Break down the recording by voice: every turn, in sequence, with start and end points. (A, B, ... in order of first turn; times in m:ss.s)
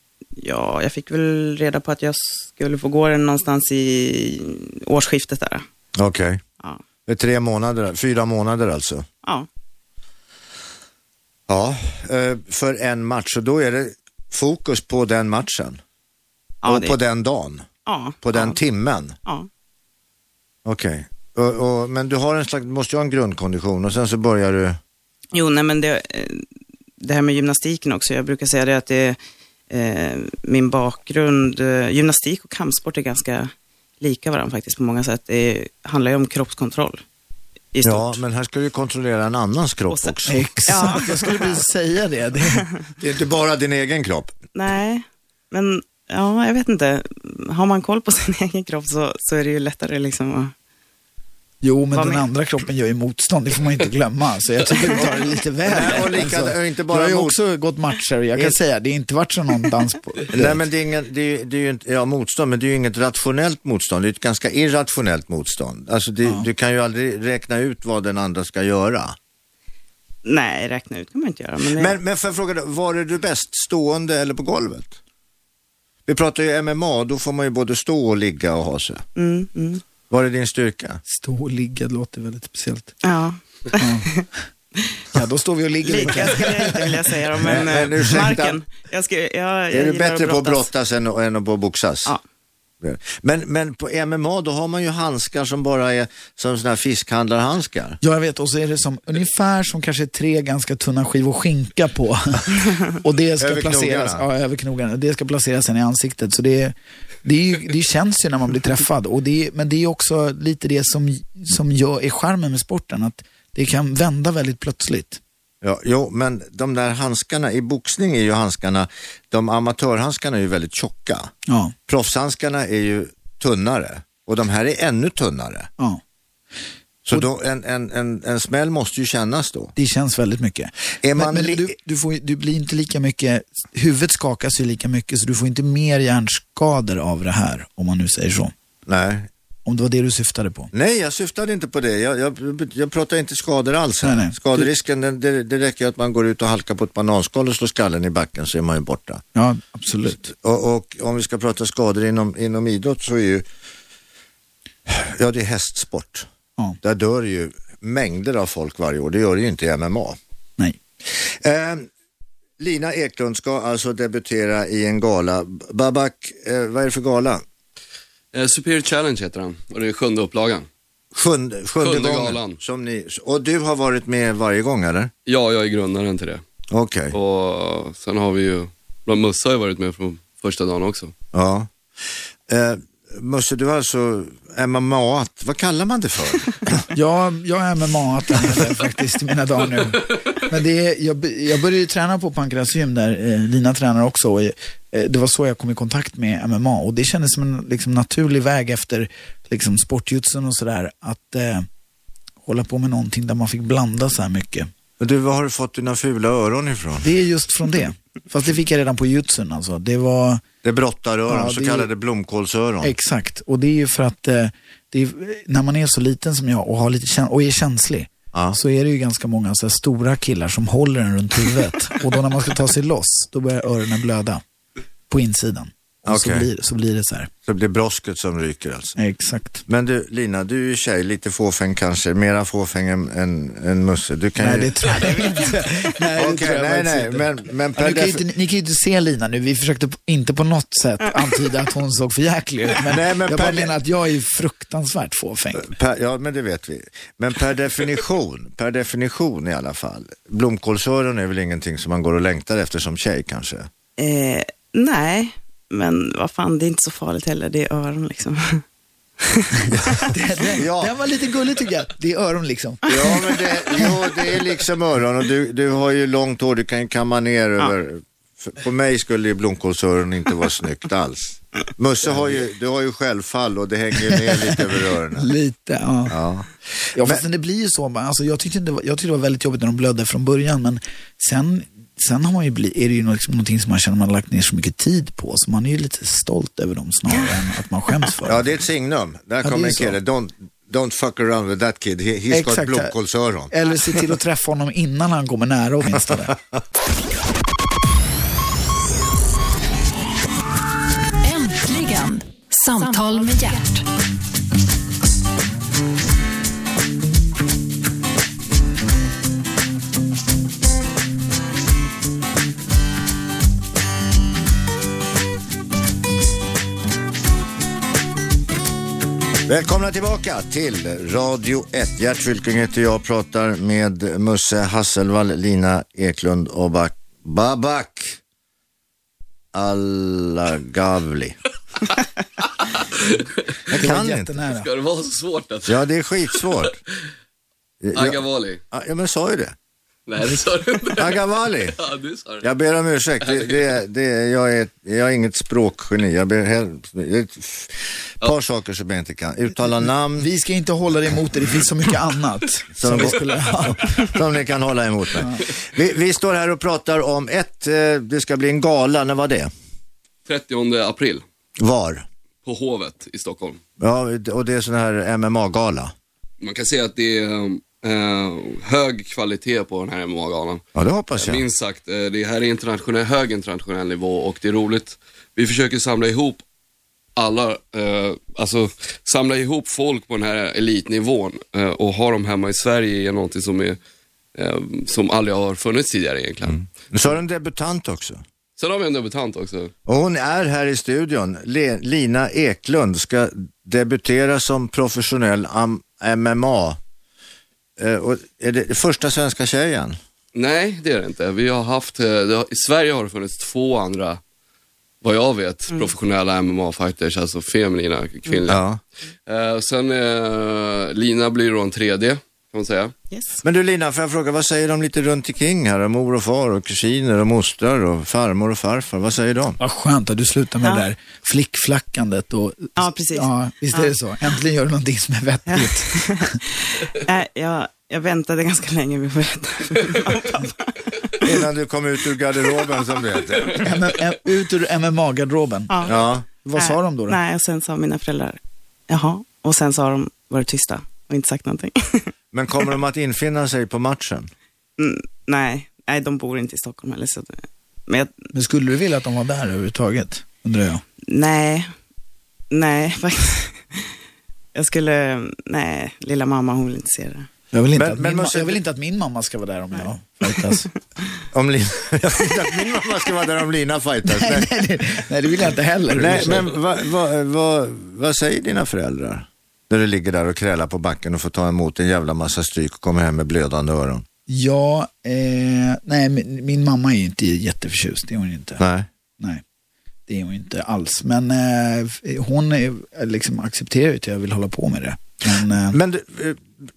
0:00.4-0:05.6 A
0:06.0-0:06.4 B
0:07.1-0:09.1 B
0:11.5-0:15.8 B
0:16.6-0:17.0 A
0:16.6-0:17.7 B
0:17.9-0:18.6 A
0:18.2-0:19.2 B
0:20.6-0:24.8 B
0:25.3-0:26.5 A
0:27.0-0:29.2 A
0:29.7-0:37.0 A
0:37.7-0:38.2 A
0:37.8-0:41.0 B
0:39.9-0:41.6 A
0:40.3-0:42.7 C
0:43.0-0:44.3 B
0:44.6-0:50.5 A
0:51.6-1:00.6 C
0:51.9-0:52.2 A
0:55.7-0:57.4 B
1:00.3-1:09.2 B
1:10.2-1:11.9 A
1:11.7-1:15.0 B
1:16.1-1:19.0 B
1:19.2-1:19.8 A
1:20.1-1:21.0 B
1:21.1-1:23.0 C
1:23.0-1:24.2 A
1:23.8-1:24.1 C
1:25.1-1:27.0 C
1:25.8-1:30.7 A
1:27.4-1:28.6 B
1:29.7-1:32.1 B
1:32.8-1:38.0 B
1:38.0-1:55.2 C
1:43.4-1:44.2 B
1:55.6-2:01.3 B
2:01.5-2:01.8 C
2:01.9-2:05.7 B
2:07.0-2:09.7 B
2:09.8-2:18.5 C
2:11.0-2:11.7 B
2:18.9-2:19.3 B
2:19.7-2:20.7 C
2:20.7-2:29.2 B
2:24.0-2:24.7 C
2:29.4-2:30.3 C
2:30.2-2:33.4 B
2:34.9-2:36.3 B
2:36.8-2:40.2 B
2:41.0-2:41.9 B
2:42.6-2:47.4 B
2:48.3-2:50.7 D
2:51.1-2:55.1 B
2:51.8-2:52.6 D
2:55.3-2:56.4 D
2:56.7-2:57.2 B
2:57.1-3:01.1 D
3:01.3-3:01.7 B
3:02.5-3:06.8 B
3:06.9-3:21.7 C
3:22.4-3:24.7 C
3:25.0-3:27.1 B
3:27.0-3:30.4 C
3:30.6-3:32.9 B
3:31.3-3:31.9 C
3:32.8-3:44.4 C
3:38.3-3:38.6 B
3:45.1-3:47.3 C
3:46.0-3:46.5 B
3:47.4-3:49.0 B
3:49.0-3:49.6 C
3:49.7-3:54.8 B
3:54.4-4:05.7 C
3:55.1-3:55.4 A
3:56.2-3:58.2 B
4:02.8-4:03.7 B
4:05.6-4:13.7 B
4:14.0-4:18.6 A
4:19.2-4:19.5 A
4:19.7-4:23.2 C
4:20.5-4:20.9 B
4:22.8-4:35.3 B
4:34.1-4:34.6 C
4:35.2-4:36.2 C
4:36.1-4:37.2 B
4:37.0-4:48.6 C
4:48.2-4:53.5 B
4:49.4-4:50.0 C
4:52.3-4:52.9 C
4:53.5-4:56.4 C
5:01.2-5:03.9 E
5:19.5-5:28.2 B
5:29.5-5:31.4 B
5:32.6-5:33.3 D
5:33.7-5:34.3 B
5:33.8-5:34.7 C
5:34.4-5:35.8 D
5:35.7-5:36.8 B
5:36.3-5:36.7 D
5:37.8-5:39.6 B
5:38.0-5:38.6 D
5:40.1-5:42.5 D
5:41.0-5:41.8 B
5:42.4-5:50.3 B
5:43.2-5:43.5 D
5:50.2-5:54.0 C
5:52.8-5:59.5 B
6:00.3-6:01.2 D
6:01.6-6:02.1 B
6:02.4-6:03.6 D
6:03.8-6:05.9 B
6:06.4-6:10.6 D
6:10.8-6:11.4 B
6:11.2-6:16.4 D
6:17.2-6:23.8 D
6:24.4-6:26.7 D
6:26.9-6:28.2 B
6:28.6-6:29.7 D
6:29.9-6:36.8 B
6:37.8-6:40.0 B
6:40.3-6:44.2 D
6:45.0-6:48.7 D
6:48.5-6:48.8 B
6:49.3-6:52.9 D
6:53.1-6:53.4 A
6:53.4-6:59.6 B
6:59.6-7:06.4 C
7:02.8-7:03.9 A
7:05.5-7:11.3 A
7:11.2-7:13.7 B
7:13.6-7:15.8 C
7:15.7-7:16.0 A
7:15.9-7:16.2 B
7:16.4-7:17.2 C
7:16.6-7:22.1 A
7:22.3-7:24.3 B
7:24.8-7:28.2 A
7:28.3-7:30.8 C
7:31.1-7:31.7 A
7:32.5-7:33.9 A
7:34.6-7:37.3 A
7:37.5-7:40.7 C
7:37.8-7:38.6 B
7:41.3-7:44.5 B
7:44.1-7:46.5 C
7:45.9-7:54.0 B
7:54.3-7:58.6 C
7:58.6-7:58.9 B
8:00.1-8:05.8 C
8:05.7-8:06.5 B